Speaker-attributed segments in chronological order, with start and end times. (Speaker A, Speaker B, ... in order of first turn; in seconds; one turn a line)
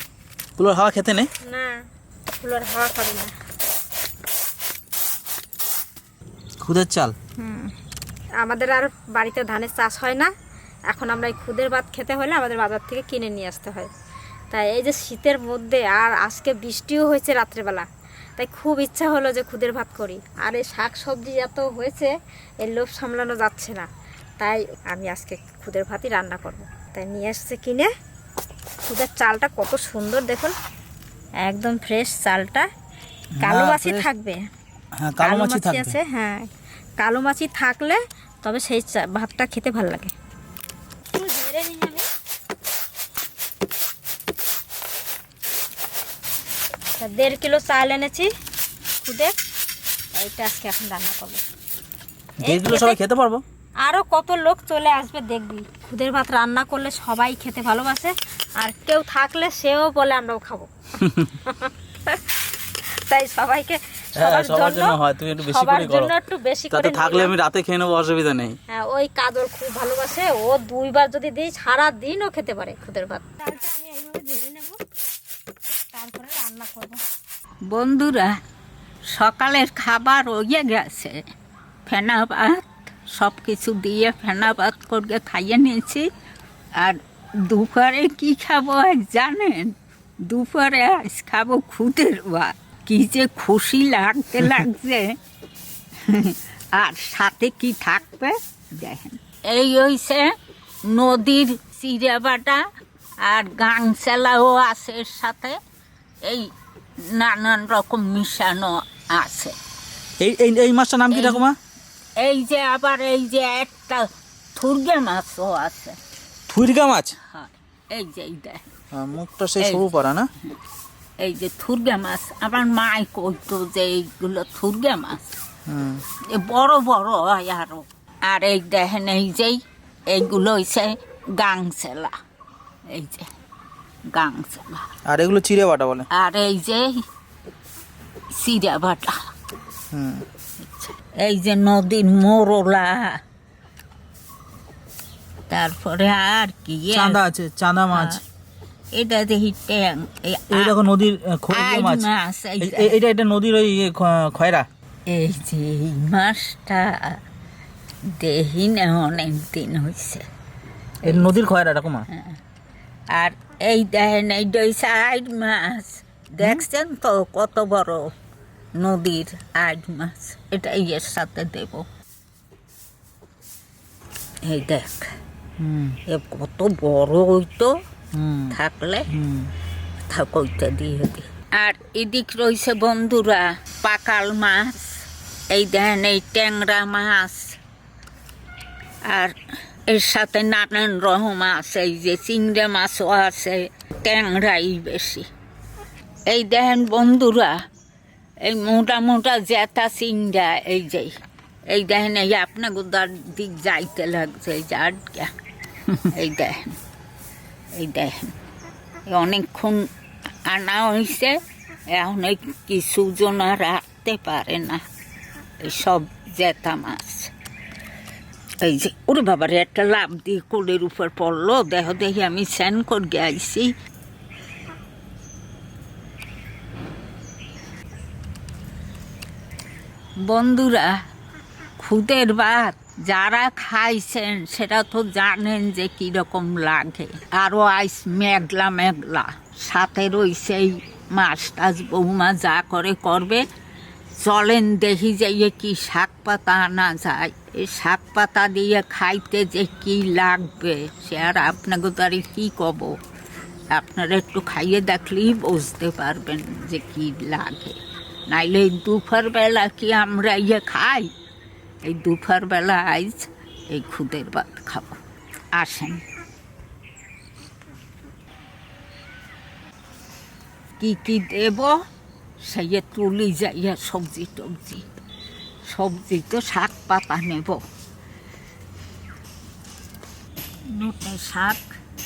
Speaker A: 0.6-1.3
Speaker B: 1.4-1.8
Speaker B: 2.4-3.3
Speaker A: 6.6-7.2
Speaker B: 7.4-7.7
Speaker B: 8.4-10.3
Speaker B: 10.9-13.9
Speaker B: 14.5-22.1
Speaker B: 22.6-23.9
Speaker B: 24.4-27.9
Speaker B: 28.9-30.6
Speaker B: 31.4-32.7
Speaker A: 33.4-34.1
Speaker B: 33.4-34.4
Speaker A: 35.0-35.9
Speaker B: 35.2-36.5
Speaker B: 37.0-40.1
Speaker B: 41.1-42.1
Speaker B: 47.0-48.3
Speaker B: 49.0-49.3
Speaker B: 50.1-51.4
Speaker A: 52.4-53.4
Speaker B: 52.4-53.0
Speaker B: 53.8-60.7
Speaker B: 61.5-62.2
Speaker B: 63.1-67.3
Speaker A: 64.2-66.1
Speaker A: 66.7-68.6
Speaker B: 68.7-74.8
Speaker B: 75.9-77.0
Speaker C: 77.7-78.3
Speaker C: 79.1-81.2
Speaker C: 81.9-86.1
Speaker C: 86.8-95.2
Speaker C: 96.0-100.3
Speaker C: 100.9-102.6
Speaker C: 103.2-105.6
Speaker C: 106.2-106.5
Speaker C: 107.1-109.6
Speaker A: 110.2-111.6
Speaker C: 111.1-111.5
Speaker C: 112.2-116.0
Speaker A: 116.5-117.2
Speaker C: 117.3-118.6
Speaker A: 118.9-120.3
Speaker C: 119.6-119.9
Speaker C: 121.2-125.2
Speaker A: 125.7-126.0
Speaker C: 126.3-132.1
Speaker C: 132.9-133.3
Speaker C: 134.1-134.9
Speaker A: 135.1-136.1
Speaker C: 136.1-137.0
Speaker C: 138.3-139.2
Speaker A: 139.9-140.2
Speaker C: 140.6-143.2
Speaker C: 145.5-147.2
Speaker A: 146.9-148.2
Speaker C: 147.9-148.2
Speaker C: 148.9-150.8
Speaker A: 150.5-152.1
Speaker C: 151.5-153.0
Speaker A: 152.6-154.7
Speaker C: 155.1-157.2
Speaker C: 158.1-160.2
Speaker C: 161.0-161.4
Speaker A: 161.0-162.1
Speaker C: 163.1-168.1
Speaker C: 168.8-171.9
Speaker C: 174.4-175.1
Speaker A: 175.6-176.0
Speaker C: 176.1-177.8
Speaker A: 178.2-178.6
Speaker C: 178.5-179.1
Speaker A: 179.1-179.5
Speaker C: 180.1-187.6
Speaker C: 189.1-189.3
Speaker C: 189.9-195.3
Speaker C: 196.3-197.6
Speaker C: 198.4-201.1
Speaker C: 201.7-205.3
Speaker C: 206.1-206.8
Speaker C: 207.8-208.3
Speaker C: 209.1-209.9
Speaker C: 210.5-211.4
Speaker C: 211.9-214.8
Speaker C: 215.6-217.3
Speaker C: 218.6-223.7
Speaker C: 230.2-230.9
Speaker C: 231.8-243.4
Speaker C: 244.2-253.0
Speaker C: 253.7-257.8
Speaker C: 258.3-261.1
Speaker C: 261.9-265.0
Speaker C: 265.6-266.0
Speaker C: 270.8-271.8
Speaker C: 272.4-274.8
Speaker C: 275.7-277.6
Speaker C: 280.7-281.7